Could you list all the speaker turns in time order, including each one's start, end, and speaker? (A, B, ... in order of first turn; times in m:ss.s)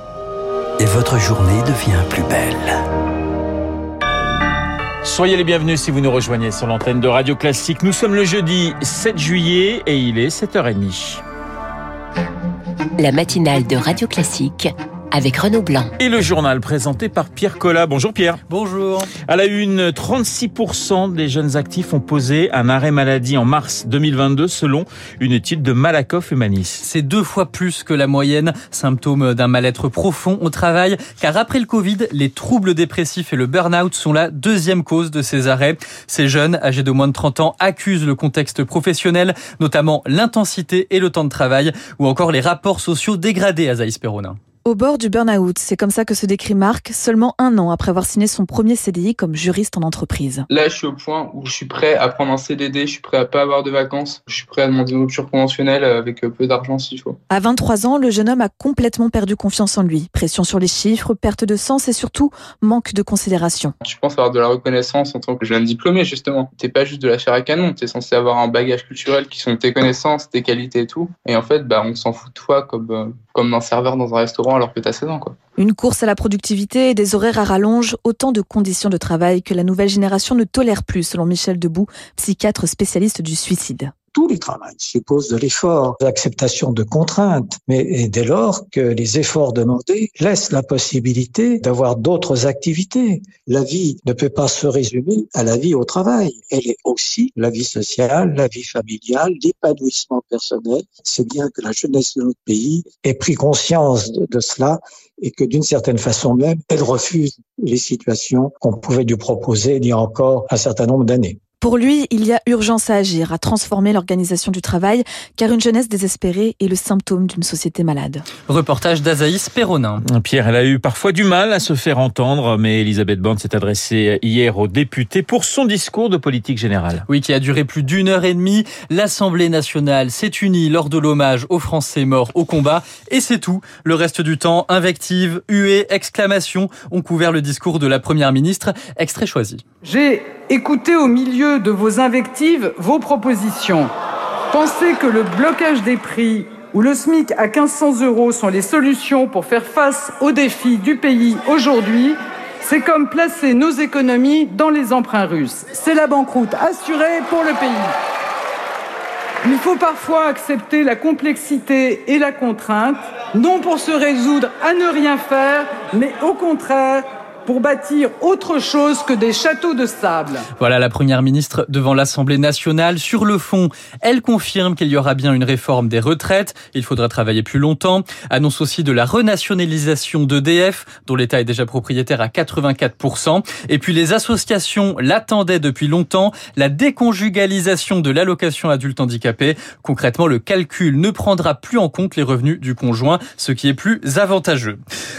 0:00.8-0:02.7 A
0:05.0-0:11.2 B
0:13.0-0:15.9 C
0:16.0-0:18.4 B
0:18.5-0:19.1 D
0:19.3-0:26.8 B
0:26.8-0:44.4 D
0:44.6-0:50.4 E
0:50.5-0:57.2 F
0:57.3-1:03.7 E
1:03.8-1:15.3 F
1:15.6-1:23.9 E
1:24.1-1:51.4 G
1:51.6-1:58.2 E
1:58.5-2:00.0 D
2:00.1-2:07.0 B
2:07.1-2:19.6 D
2:19.8-2:23.9 H
2:24.5-2:37.9 H
2:39.4-2:50.4 H
2:50.6-3:14.8 D